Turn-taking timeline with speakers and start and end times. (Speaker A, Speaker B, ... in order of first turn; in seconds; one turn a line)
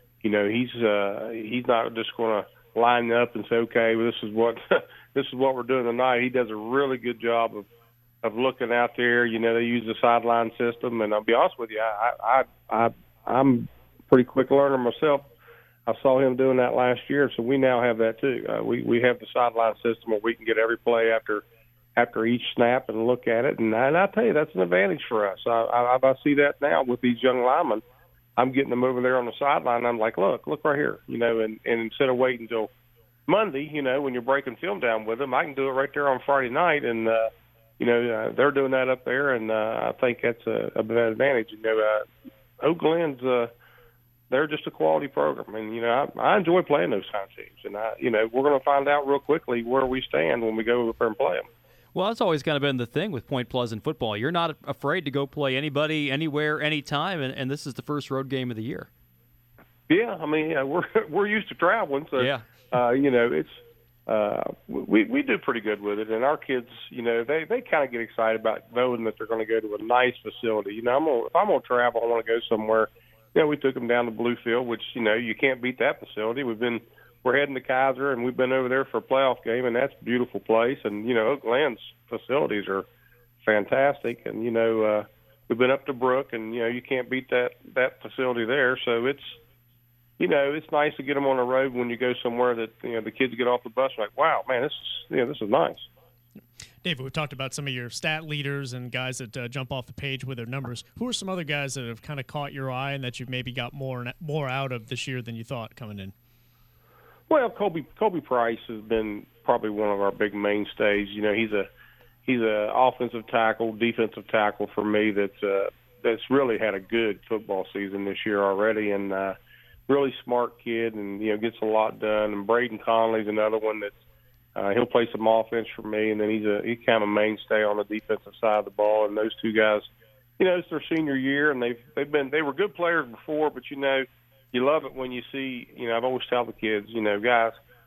Speaker A: 0.2-7.7
Speaker A: 8.2-15.3
Speaker A: 15.9-21.4
Speaker A: 21.9-27.8
Speaker A: 28.4-32.7
Speaker A: 33.3-42.0
Speaker A: 42.6-43.5
Speaker A: 44.3-51.5
Speaker B: 51.9-58.9
Speaker A: 59.9-82.8
Speaker B: 62.2-62.4
Speaker A: 83.4-89.4
Speaker A: 90.2-95.9
Speaker C: 96.8-106.1
Speaker A: 107.3-111.7
Speaker A: 112.2-119.3
Speaker A: 119.9-124.0
Speaker A: 124.5-129.9
Speaker A: 130.4-137.6